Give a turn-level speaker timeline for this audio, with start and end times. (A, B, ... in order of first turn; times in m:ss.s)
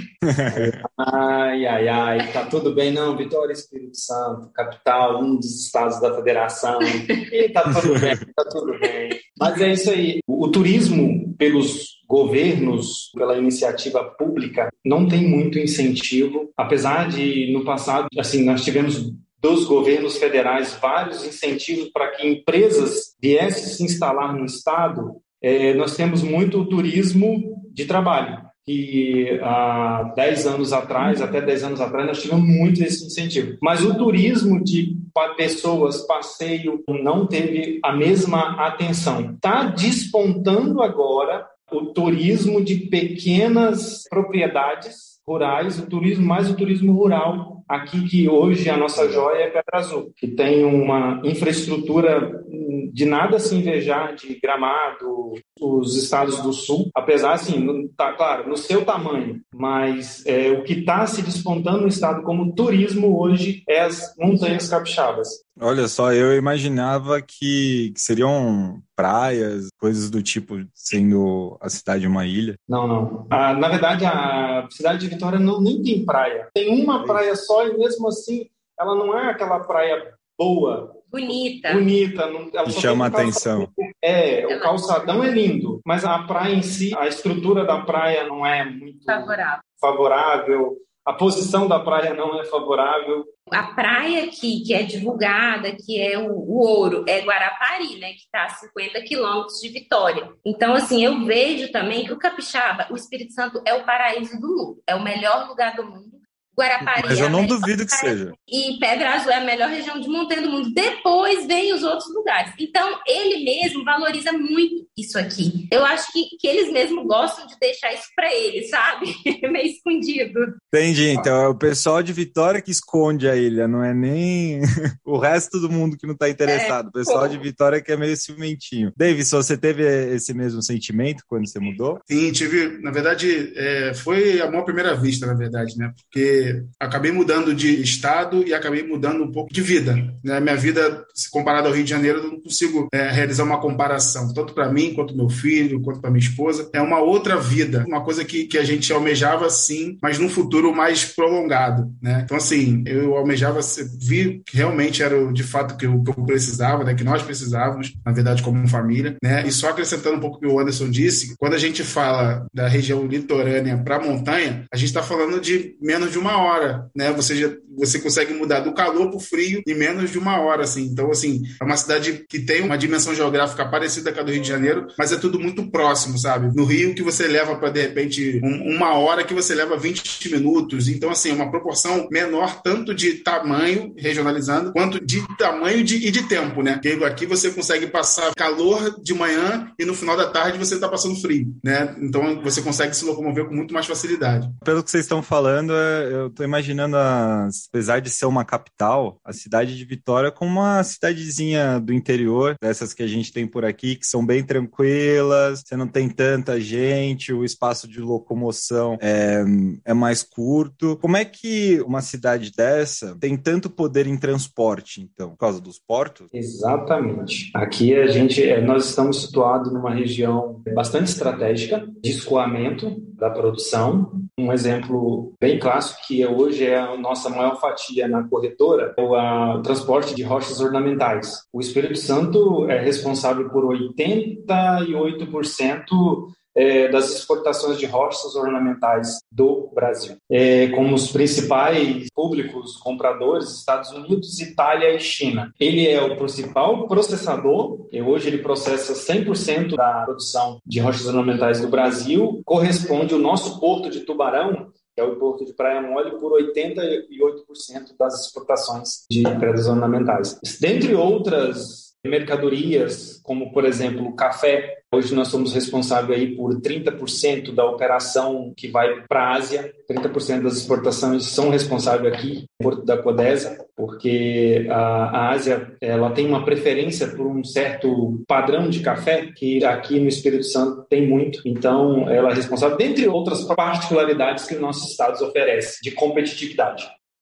0:00.2-0:00.8 A
0:00.5-1:05.4 B
0:07.9-0:08.1 A
0:49.0-0:49.2 A
1:05.6-1:12.6 A
1:12.7-1:33.3 B
1:21.1-1:21.9 C
1:22.6-1:23.7 A
1:29.1-1:29.6 C
1:33.5-2:00.6 C
1:46.8-1:48.3 A
2:00.7-2:12.0 A
2:06.5-2:07.4 C
2:12.1-3:14.6 D
3:14.6-3:36.3 A
3:36.3-4:46.9 B